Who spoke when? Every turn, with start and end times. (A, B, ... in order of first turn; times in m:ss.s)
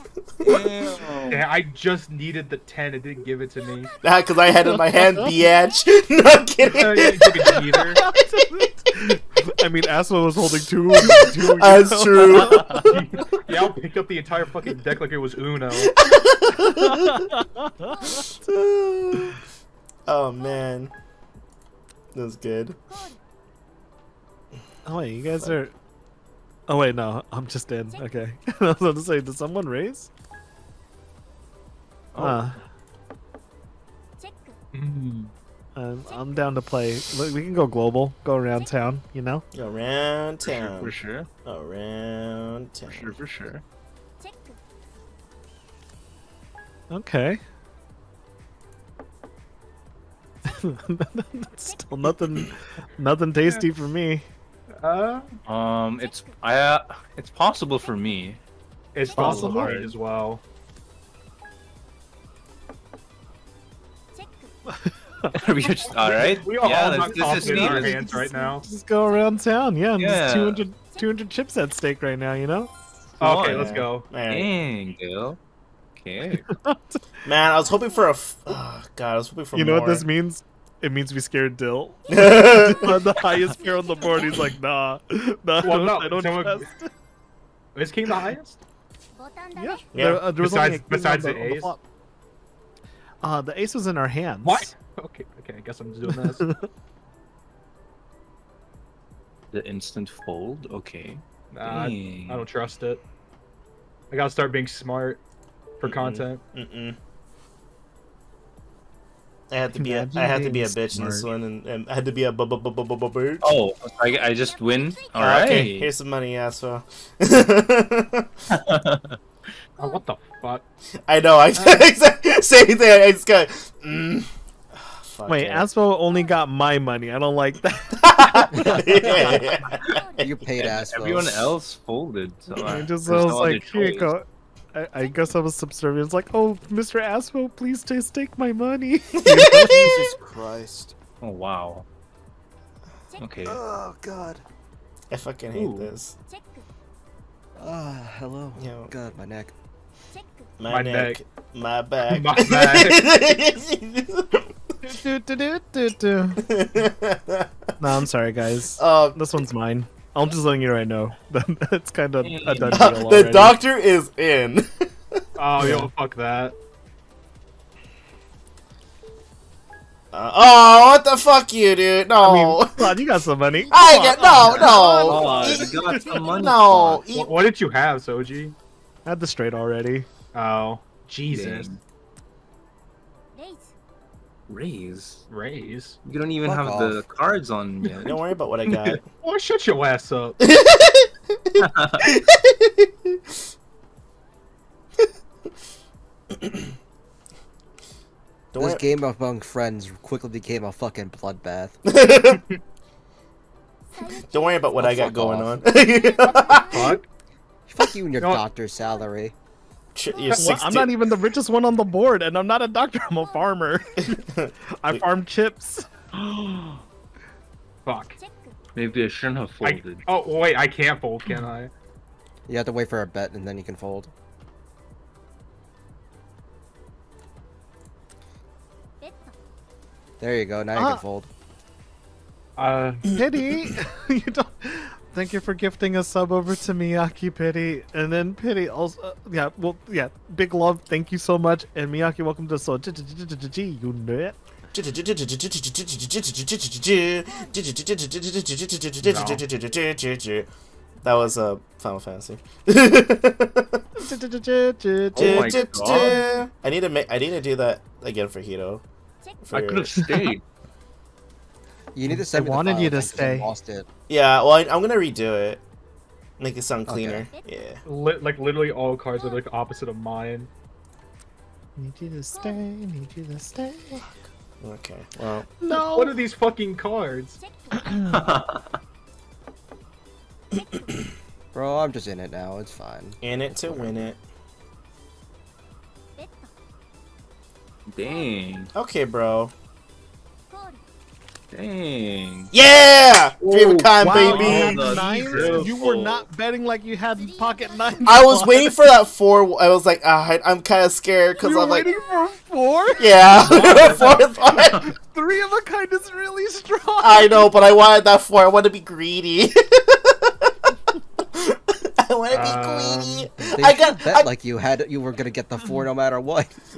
0:00.4-0:01.5 A
0:01.3-0:03.9 B
0:04.0-0:08.6 C
0:04.9-0:05.3 D
0:06.6-0:08.0 B
0:07.7-0:12.9 D
0:11.0-0:13.0 C
0:12.8-0:15.9 B
0:15.7-0:17.2 C
0:16.6-0:18.0 D
0:18.1-0:19.4 C
0:20.1-0:20.9 C
0:22.1-0:22.8 C
0:24.8-0:25.7 D
0:26.7-0:30.1 D
0:32.1-0:32.6 A
0:32.2-0:32.6 D
0:34.7-0:35.3 B
0:35.8-0:39.4 D
0:39.5-0:40.9 C
0:40.4-0:41.3 A
0:41.4-0:43.1 C
0:42.9-0:43.6 A
0:46.9-0:47.4 D
0:50.4-0:54.2 D
0:54.8-0:55.4 B
0:55.4-0:58.4 A
0:58.9-1:00.4 B
0:59.0-0:59.9 A
0:59.2-0:59.8 D
1:04.7-1:05.4 D
1:05.3-1:08.1 A
1:05.9-1:08.6 B
1:07.0-1:12.7 D
1:10.0-1:10.6 A
1:13.2-1:14.1 B
1:13.2-1:15.4 A
1:13.4-1:14.5 C
1:16.0-1:16.6 A
1:16.5-1:17.0 D
1:17.2-1:20.1 C
1:19.5-1:26.9 D
1:22.1-1:23.0 C
1:25.6-1:26.7 B
1:27.7-1:28.6 B
1:29.5-1:31.8 D
1:29.9-1:30.2 C
1:30.3-1:31.7 B
1:33.2-1:34.7 D
1:34.4-1:36.5 B
1:36.2-1:36.6 D
1:39.5-1:42.4 A
1:41.5-1:43.0 B
1:44.1-1:45.2 B
1:45.8-1:46.4 B
1:45.8-1:47.0 C
1:49.5-1:53.4 C
1:49.7-1:51.3 D
1:53.4-1:55.9 A
1:55.1-1:58.3 C
1:58.5-1:59.2 A
1:59.8-2:00.6 B
2:01.1-2:04.3 C
2:01.6-2:01.8 B
2:05.0-2:05.7 C
2:05.3-2:08.4 D
2:07.9-2:10.2 C
2:08.5-2:09.4 E
2:10.2-2:11.5 E
2:10.6-2:14.1 A
2:12.6-2:19.9 D
2:19.2-2:20.0 C
2:19.7-2:20.9 E
2:21.2-2:21.8 A
2:23.2-2:23.6 A
2:23.4-2:24.4 E
2:25.1-2:26.2 C
2:25.5-2:25.9 A
2:27.6-2:29.5 E
2:28.6-2:28.9 C
2:30.6-2:34.5 C
2:30.7-2:31.2 B
2:32.1-2:33.0 B
2:34.8-2:36.5 D
2:36.4-2:37.5 C
2:37.8-2:43.6 D
2:38.8-2:39.2 C
2:42.2-2:43.0 A
2:42.7-2:45.2 C
2:45.4-2:46.5 B
2:45.6-2:45.9 D
2:50.1-2:52.9 C
2:52.2-2:55.6 D
2:53.7-2:57.3 C
2:54.3-2:57.0 A
2:55.1-2:55.5 B
2:57.1-2:58.5 B
2:59.0-3:00.1 D
3:00.3-3:01.7 B
3:01.3-3:01.8 A
3:04.5-3:05.2 A
3:05.3-3:06.0 B
3:06.0-3:09.0 A
3:06.4-3:07.0 E
3:08.0-3:09.0 C
3:09.2-3:10.4 B
3:10.4-3:13.2 C
3:11.6-3:12.1 A
3:18.5-3:18.8 C
3:18.6-3:21.8 E
3:21.8-3:22.5 C
3:24.1-3:27.0 C
3:24.8-3:25.6 E
3:26.3-3:27.0 B
3:27.7-3:29.3 E
3:29.9-3:30.9 C
3:30.3-3:34.2 D
3:34.1-3:35.0 C
3:34.8-3:36.8 D
3:37.8-3:38.2 B
3:38.8-3:40.0 A
3:39.6-3:41.7 B
3:42.5-3:44.1 E
3:50.2-3:51.3 E
3:50.8-3:51.0 D
3:52.6-3:53.1 B
3:53.1-4:04.4 D
4:04.7-4:10.5 C
4:09.0-4:09.4 B
4:11.0-4:13.8 C
4:14.0-4:16.3 D
4:15.1-4:16.3 A
4:15.2-4:18.8 C
4:19.4-4:20.1 C
4:19.5-4:20.4 A
4:21.9-4:23.9 E
4:22.0-4:23.5 D
4:24.1-4:25.6 C
4:26.4-4:27.8 C
4:26.9-4:27.2 E
4:27.8-4:30.5 B
4:31.8-4:34.0 D
4:34.6-4:35.5 C
4:35.6-4:36.2 D
4:35.7-4:37.4 B
4:37.7-4:38.2 D
4:38.0-4:38.8 A
4:41.5-4:44.1 E
4:43.2-4:44.2 C
4:47.9-4:48.7 A
4:48.7-4:49.5 C
4:51.5-4:52.5 A
4:52.5-4:55.7 C
4:53.4-4:56.2 A
4:54.0-4:58.7 D
4:58.0-5:01.9 C
5:01.4-5:04.0 D
5:03.0-5:04.9 C
5:03.3-5:04.2 B
5:04.8-5:07.5 D
5:07.0-5:10.5 C
5:11.3-5:14.3 C
5:12.3-5:13.3 B
5:13.4-5:16.5 E